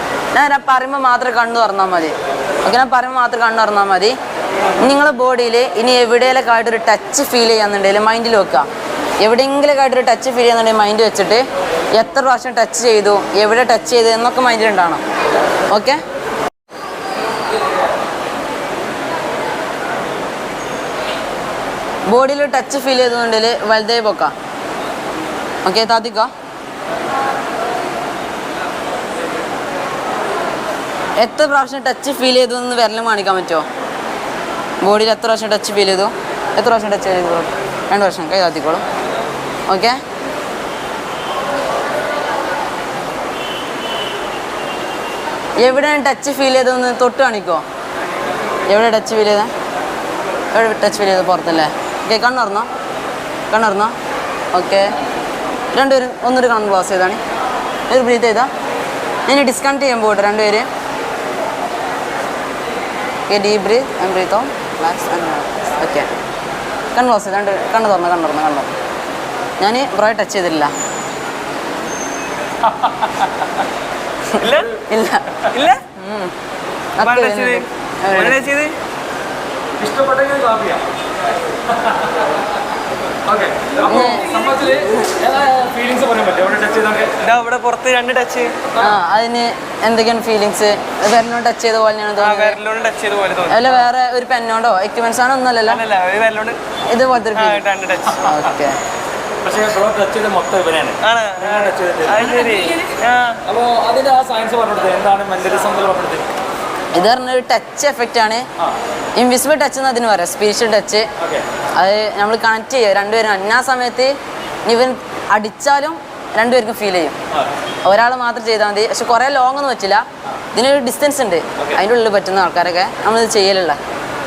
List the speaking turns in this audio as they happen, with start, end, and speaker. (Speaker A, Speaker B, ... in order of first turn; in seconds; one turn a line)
Speaker A: 0.3-4.2
Speaker A: 4.8-8.7
Speaker A: 9.2-11.4
Speaker A: 11.9-15.0
Speaker A: 15.7-16.0
Speaker A: 22.1-24.3
Speaker A: 25.6-26.3
Speaker A: 31.2-33.7
Speaker A: 34.8-38.8
Speaker A: 39.7-40.0
Speaker A: 45.6-47.6
Speaker A: 48.7-49.5
Speaker A: 50.5-52.7
Speaker A: 53.5-53.9
Speaker A: 54.5-54.9
Speaker A: 55.7-57.2
Speaker A: 57.9-58.5
Speaker A: 59.3-60.7
Speaker A: 63.3-66.1
Speaker A: 66.9-68.7
Speaker A: 69.6-70.7
Speaker B: 74.4-74.7
Speaker A: 74.4-76.3
Speaker B: 75.5-75.8
Speaker A: 77.0-78.5
Speaker B: 77.0-78.7
Speaker C: 79.8-80.8
Speaker C: 81.7-82.2
Speaker C: 83.2-87.2
Speaker A: 83.8-84.3
Speaker B: 87.2-88.6
Speaker A: 88.8-92.6
Speaker B: 92.2-93.7
Speaker A: 93.5-95.8
Speaker B: 95.7-96.6
Speaker A: 96.9-97.7
Speaker B: 97.4-98.2
Speaker A: 98.2-98.8
Speaker C: 99.4-102.5
Speaker B: 101.1-103.4
Speaker C: 103.4-106.3
Speaker A: 106.9-108.5
Speaker A: 109.2-111.1
Speaker C: 111.2-111.5
Speaker A: 111.8-114.1
Speaker A: 114.7-117.2
Speaker A: 117.8-123.8